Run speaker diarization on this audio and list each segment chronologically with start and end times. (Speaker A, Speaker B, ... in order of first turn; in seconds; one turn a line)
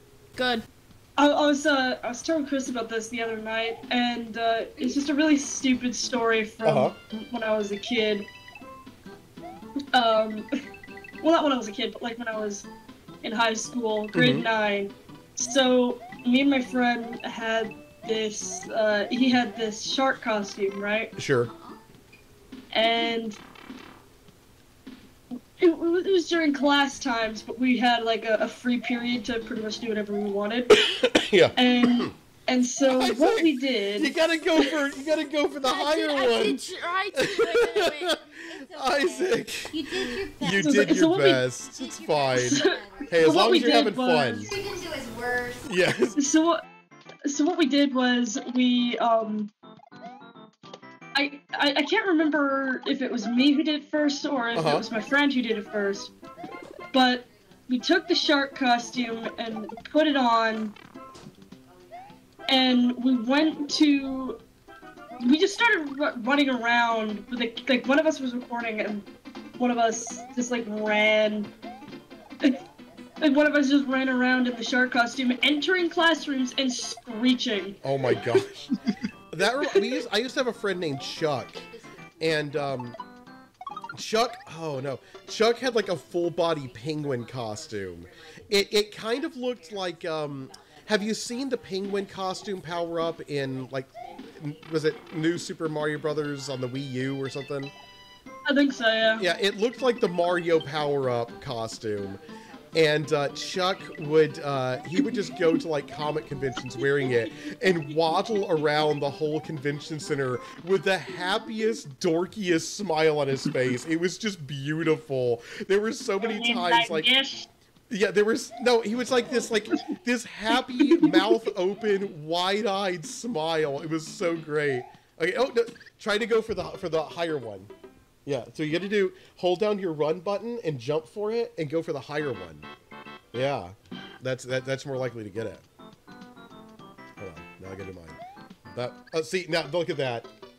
Speaker A: 0.4-0.7
Speaker B: 1.2-8.3
Speaker C: 6.6-6.9
Speaker B: 9.9-10.5
Speaker B: 11.2-12.7
Speaker B: 13.2-21.1
Speaker C: 14.1-14.5
Speaker C: 21.2-21.5
Speaker D: 21.4-21.8
Speaker B: 22.7-23.4
Speaker B: 25.6-30.7
Speaker C: 30.7-32.1
Speaker B: 31.6-34.1
Speaker C: 32.9-38.2
Speaker A: 35.6-38.2
Speaker D: 38.2-41.0
Speaker C: 38.7-44.5
Speaker B: 40.6-41.5
Speaker D: 41.6-43.6
Speaker B: 43.2-44.5
Speaker C: 45.6-46.2
Speaker B: 46.2-46.6
Speaker B: 47.3-49.5
Speaker B: 51.1-56.1
Speaker C: 54.5-54.9
Speaker B: 56.9-60.8
Speaker B: 62.5-64.4
Speaker B: 65.2-69.1
Speaker B: 69.6-71.5
Speaker B: 73.2-77.8
Speaker C: 77.8-78.8
Speaker C: 79.3-81.6
Speaker D: 81.0-82.6
Speaker C: 82.2-83.0
Speaker C: 83.9-97.7
Speaker D: 87.3-87.6
Speaker B: 98.5-99.2
Speaker C: 99.2-102.2
Speaker C: 102.7-117.1
Speaker B: 116.2-117.5
Speaker C: 117.9-127.7
Speaker B: 120.8-121.2
Speaker C: 128.3-132.7
Speaker C: 133.3-135.6
Speaker C: 137.2-140.3